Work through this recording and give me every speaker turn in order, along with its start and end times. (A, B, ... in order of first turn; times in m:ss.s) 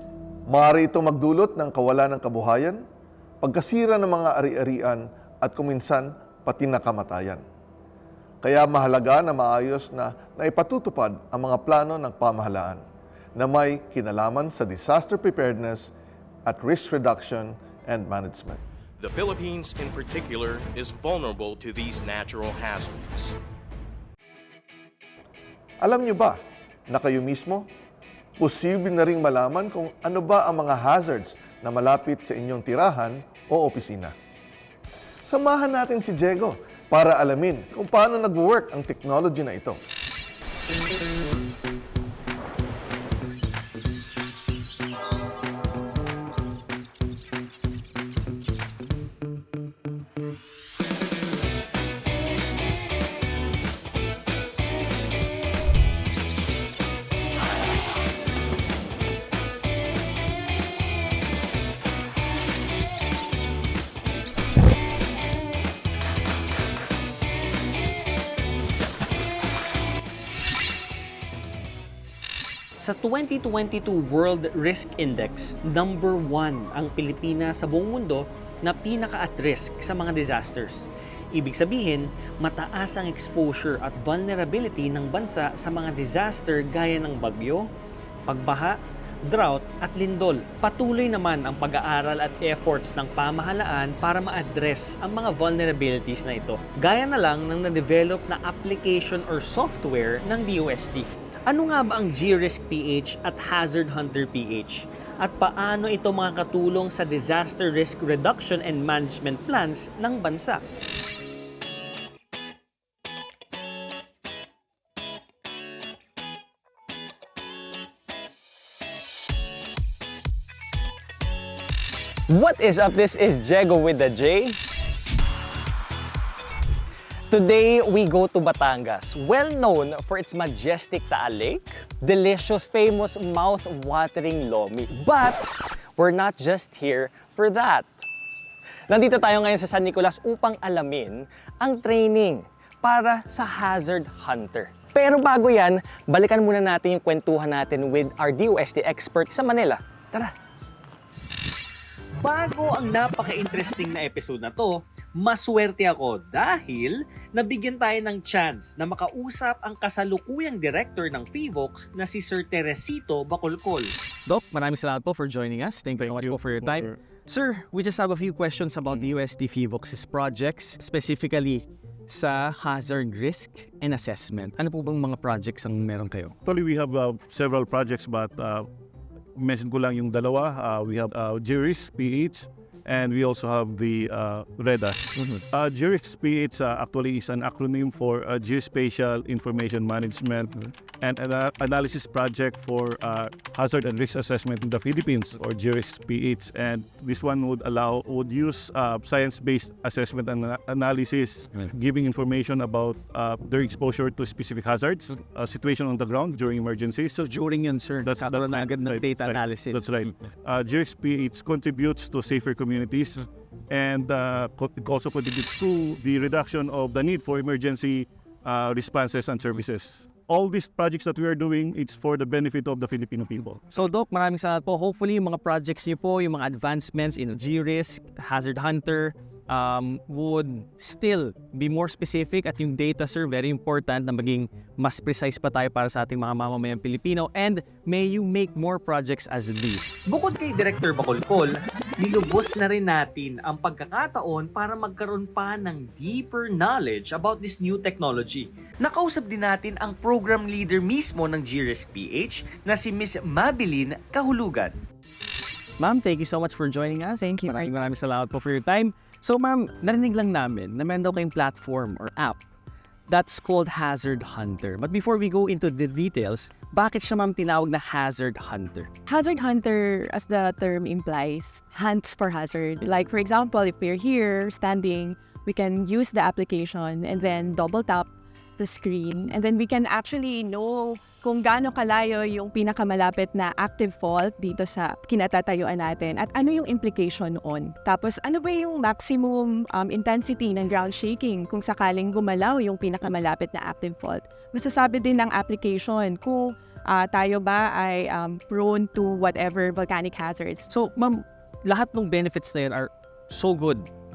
0:00.5-0:02.8 A
0:03.4-0:07.4 A
0:08.4-0:12.8 A
0:13.4-0:15.9 A
0:16.5-0:18.6 A
0:19.0-0:23.3 B
0:25.8-0:26.4 A
0:26.9-0:27.6 A
0:28.4-0:34.1 A
0:35.3-0:39.8 A
1:12.8-1:27.6 C
1:28.3-1:28.8 C
1:29.3-1:50.6 C
2:02.3-2:04.5 C
2:07.3-2:18.0 C
2:18.9-2:30.3 C
2:32.2-2:43.9 C
2:44.3-2:56.3 D
2:46.0-2:47.0 E
2:56.4-2:58.7 E
2:59.4-3:27.3 E
3:27.2-3:30.1 D
3:28.0-3:43.6 E
3:43.7-3:59.9 D
4:00.1-4:08.4 C
4:02.6-4:02.8 D
4:05.4-4:06.6 D
4:08.8-4:14.7 D
4:15.8-4:22.4 D
4:23.1-4:28.9 D
4:29.1-5:00.7 F
5:00.7-5:03.9 D